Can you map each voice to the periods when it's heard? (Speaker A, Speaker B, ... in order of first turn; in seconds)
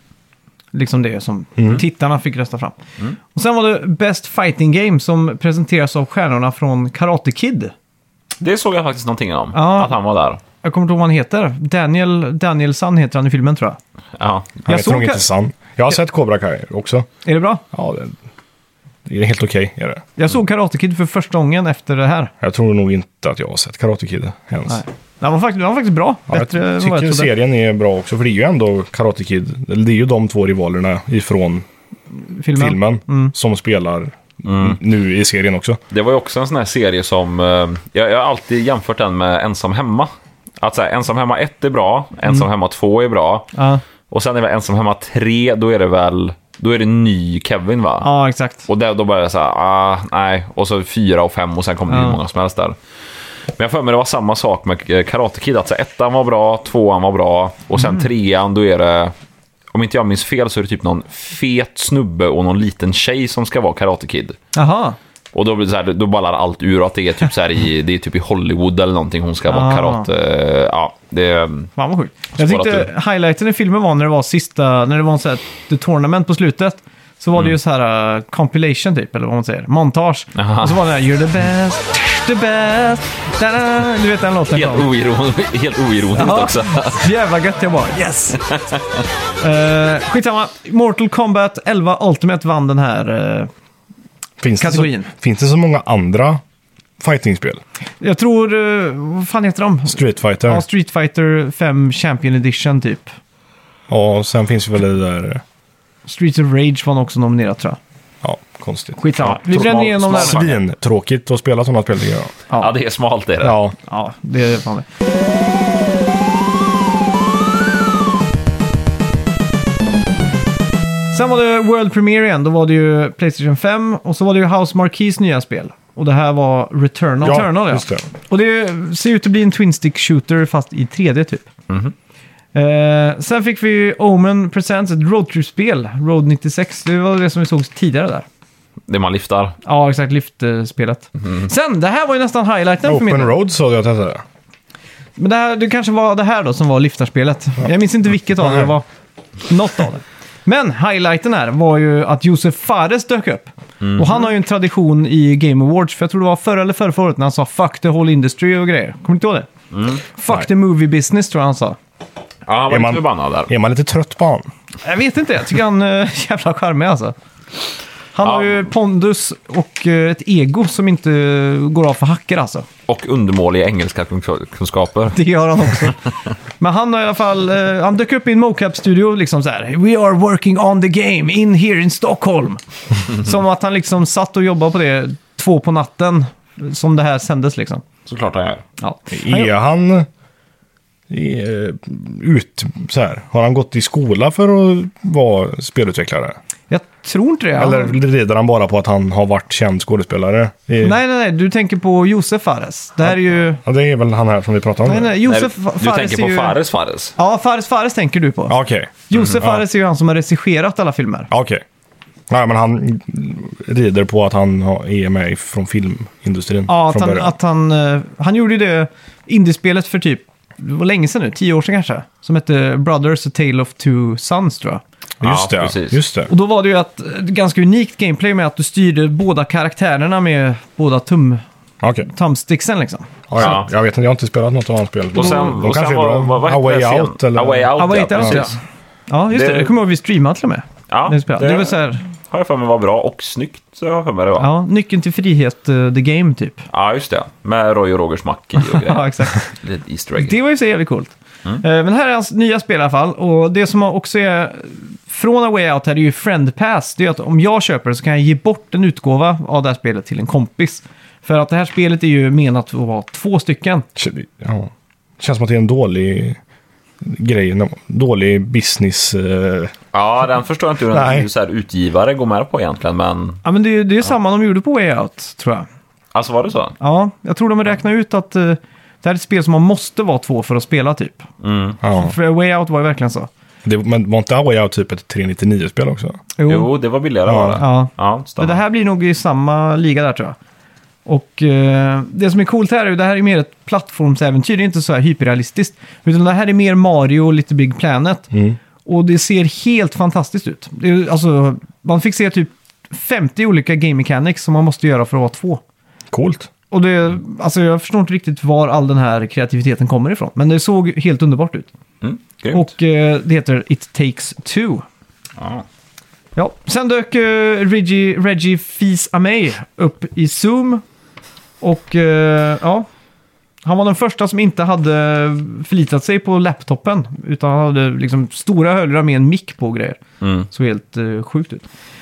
Speaker A: 0.7-2.8, 3.3-7.7, 9.5-9.9, 10.6-13.8, 14.7-15.2, 17.2-17.6, 20.2-22.3, 24.7-27.3, 32.2-33.3, 43.5-43.8, 48.0-48.7, 51.9-52.2, 57.8-58.1, 64.5-65.0, 69.5-70.1, 71.8-84.9, 86.2-88.5, 89.4-93.5, 94.6-95.1, 98.0-103.1, 106.1-107.8, 109.0-110.5, 113.9-114.9, 121.1-131.5, 132.6-138.3, 139.7-143.3, 145.2-148.8, 149.4-159.5, 160.1-161.8, 164.8-167.2, 168.2-172.7, 175.1-176.0, 176.6-187.8, 188.8-189.5, 196.7-198.0, 200.8-203.6, 204.8-206.6, 207.2-208.6, 209.1-211.3, 216.7-224.8, 226.3-231.4, 232.0-233.1, 237.8-238.6, 239.1-242.0, 244.4-246.6, 248.6-249.5, 250.2-263.9, 273.4-275.7, 276.8-281.3, 281.9-283.3, 286.4-286.7, 287.6-290.4, 291.1-298.3, 298.8-305.6, 306.7-311.7, 312.5-314.9, 316.4-320.8, 321.6-322.9, 323.6-330.0, 330.5-331.6
Speaker B: 1.6-1.8, 14.7-17.1, 17.7-18.2, 19.1-20.1, 22.4-24.8, 26.3-31.7, 32.5-35.8, 94.4-96.4, 97.0-97.6, 99.9-100.7, 103.9-105.4, 108.2-112.3, 113.4-113.8, 127.2-128.1, 142.9-144.2, 148.4-148.7, 162.7-164.5, 189.1-190.1, 191.1-196.4, 197.6-201.0, 203.1-205.2, 208.5-209.7, 211.3-211.6, 212.3-217.3, 225.2-226.3, 231.8-232.1, 233.3-238.4, 264.0-266.4, 267.0-269.7, 270.9-271.3, 281.8-282.1, 283.6-286.2, 287.3-287.6, 298.3-298.6, 306.1-306.5
Speaker C: 8.4-10.4, 14.2-14.6, 34.5-34.8, 35.9-43.5, 44.1-48.1, 48.7-52.8, 53.6-59.1, 59.7-64.4, 65.3-71.7, 72.4-72.9, 80.4-80.8, 84.5-87.1, 109.2-110.5, 112.6-113.6, 131.7-131.9, 138.9-139.6, 153.8-154.2, 159.7-160.0, 162.5-163.5, 168.2-168.6, 172.9-175.9, 188.1-188.6, 205.2-207.1, 225.2-226.0, 233.4-233.7, 235.2-238.6, 239.3-239.7, 240.9-244.5, 246.7-250.4, 269.9-273.4, 276.1-276.8, 281.4-281.8, 286.5-288.6, 312.0-312.7, 315.4-315.6, 330.2-330.5